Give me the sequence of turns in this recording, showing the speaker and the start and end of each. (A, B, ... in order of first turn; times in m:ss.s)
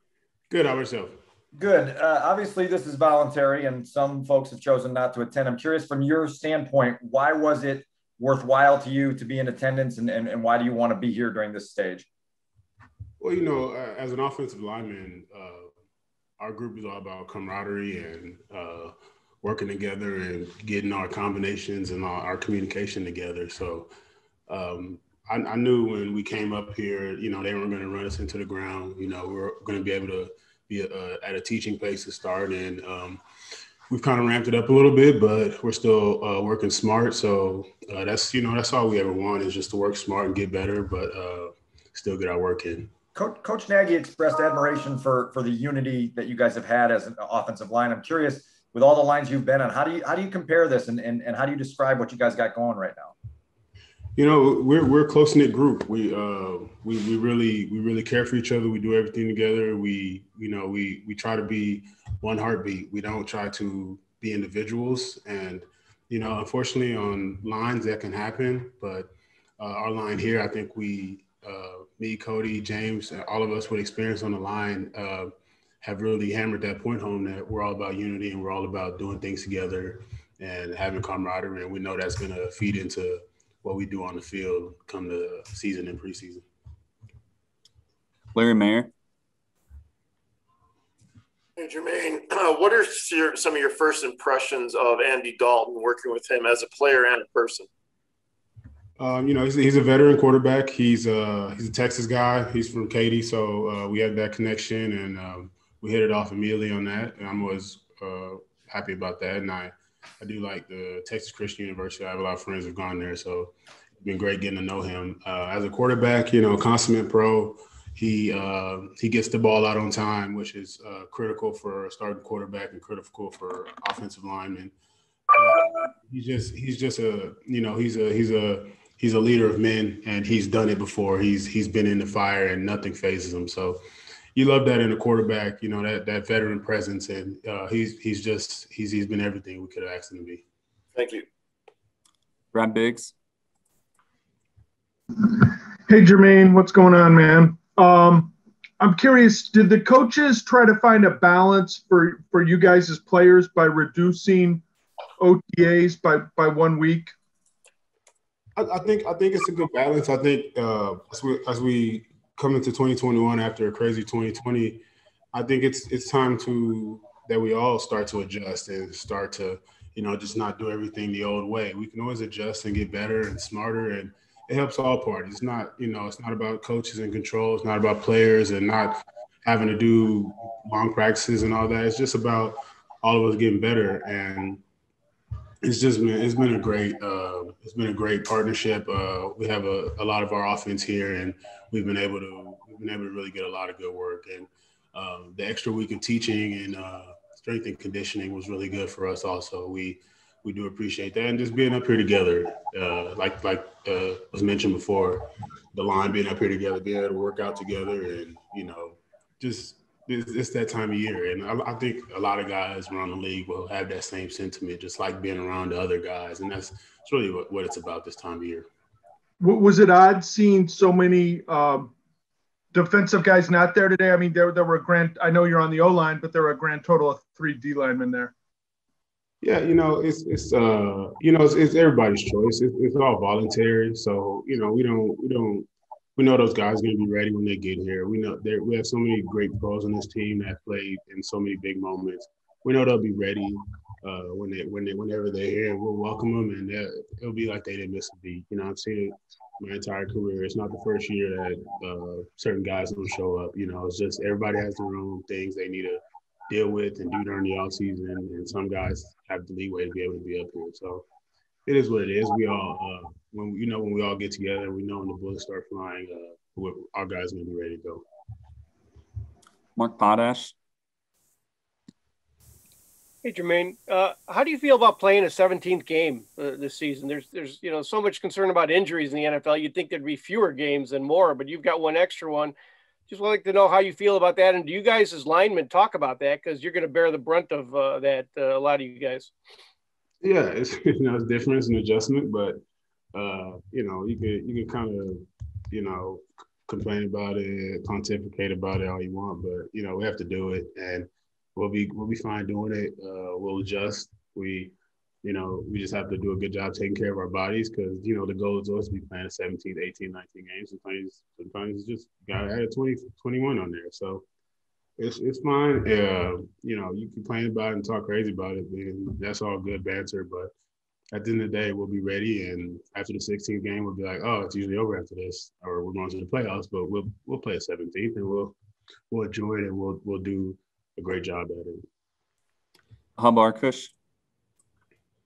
0:00.5-0:01.2 A
0:01.5-0:12.1 B
0:13.2-0:15.7 A
0:16.4-0:23.9 A
0:24.5-0:33.2 A
0:33.9-0:42.9 A
0:43.1-0:53.1 B
0:54.2-1:15.3 A
1:15.8-1:26.4 A
1:28.3-1:28.9 C
1:31.6-1:37.7 D
1:39.0-2:04.7 A
2:05.3-2:13.8 A
2:14.3-2:20.4 A
2:20.9-2:21.2 D
2:22.5-2:23.1 C
2:25.2-2:34.6 E
2:35.2-2:37.1 E
2:38.6-3:04.6 A
3:05.6-3:38.7 A
3:39.4-3:41.9 E
3:42.7-3:48.3 E
3:49.4-4:21.0 A
4:21.6-4:28.0 A
4:29.8-4:30.5 C
4:33.2-4:42.5 F
4:43.1-4:49.3 F
4:50.2-4:52.6 A
4:53.1-5:14.2 A
5:15.0-5:20.5 A
5:21.1-5:28.5 A
5:29.1-5:31.8 A
5:33.2-5:33.9 C